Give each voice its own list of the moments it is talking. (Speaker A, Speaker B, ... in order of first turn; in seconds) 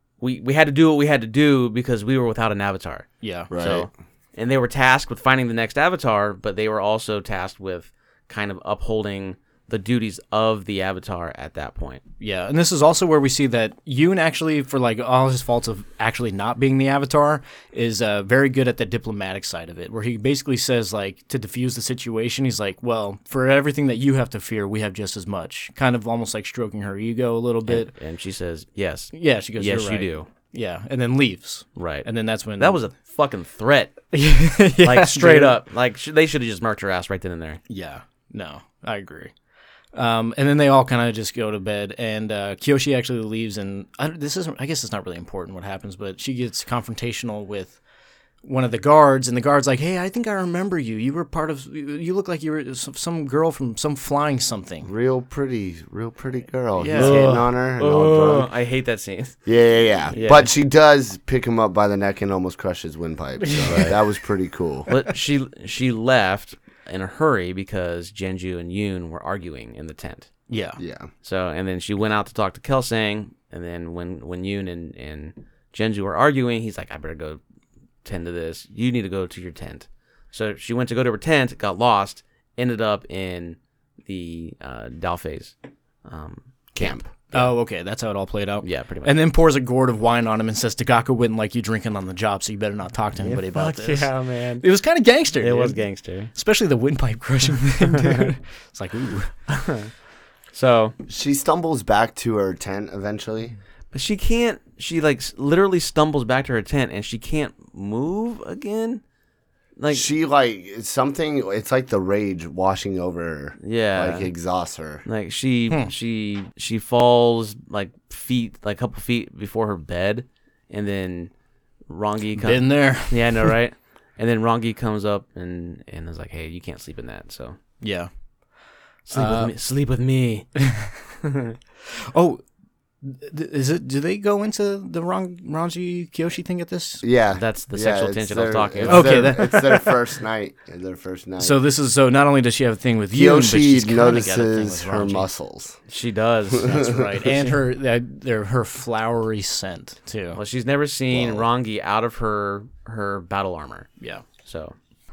Speaker A: 0.2-12.0, 27.7-30.3, 31.8-34.1, 34.8-37.6, 56.9-59.4, 60.1-60.5, 63.7-64.0, 64.9-70.3, 71.2-77.4, 78.0-85.5, 86.0-87.5, 88.6-89.1, 93.2-94.7, 95.4-96.3, 98.0-98.3, 99.5-99.9, 100.5-101.0, 103.9-109.0, 109.8-110.1, 113.6-114.3, 115.0-121.3, 121.9-127.6, 129.1-130.5, 131.2-131.6, 137.3-139.4, 145.9-147.4, 150.3-153.9, 154.4-154.8
Speaker B: 3.2-3.5, 12.2-27.9, 29.1-32.8, 34.1-35.6, 37.7-39.3, 39.9-47.8, 48.4-54.9, 56.8-57.4, 63.4-64.0, 70.5-70.8, 87.3-95.8, 96.3-99.3, 122.4-123.5, 127.8-128.1, 129.1-129.5, 130.6-130.9, 132.1-132.4, 133.0-137.0, 138.9-139.9, 141.4-145.3, 146.7-150.4, 154.0-154.2
Speaker C: 3.5-3.9, 54.9-58.5, 59.5-64.9, 70.8-71.1, 86.8-87.1, 101.1-103.5, 109.9-115.0, 137.0-141.6, 143.1-145.8, 146.5-147.1, 151.1-151.5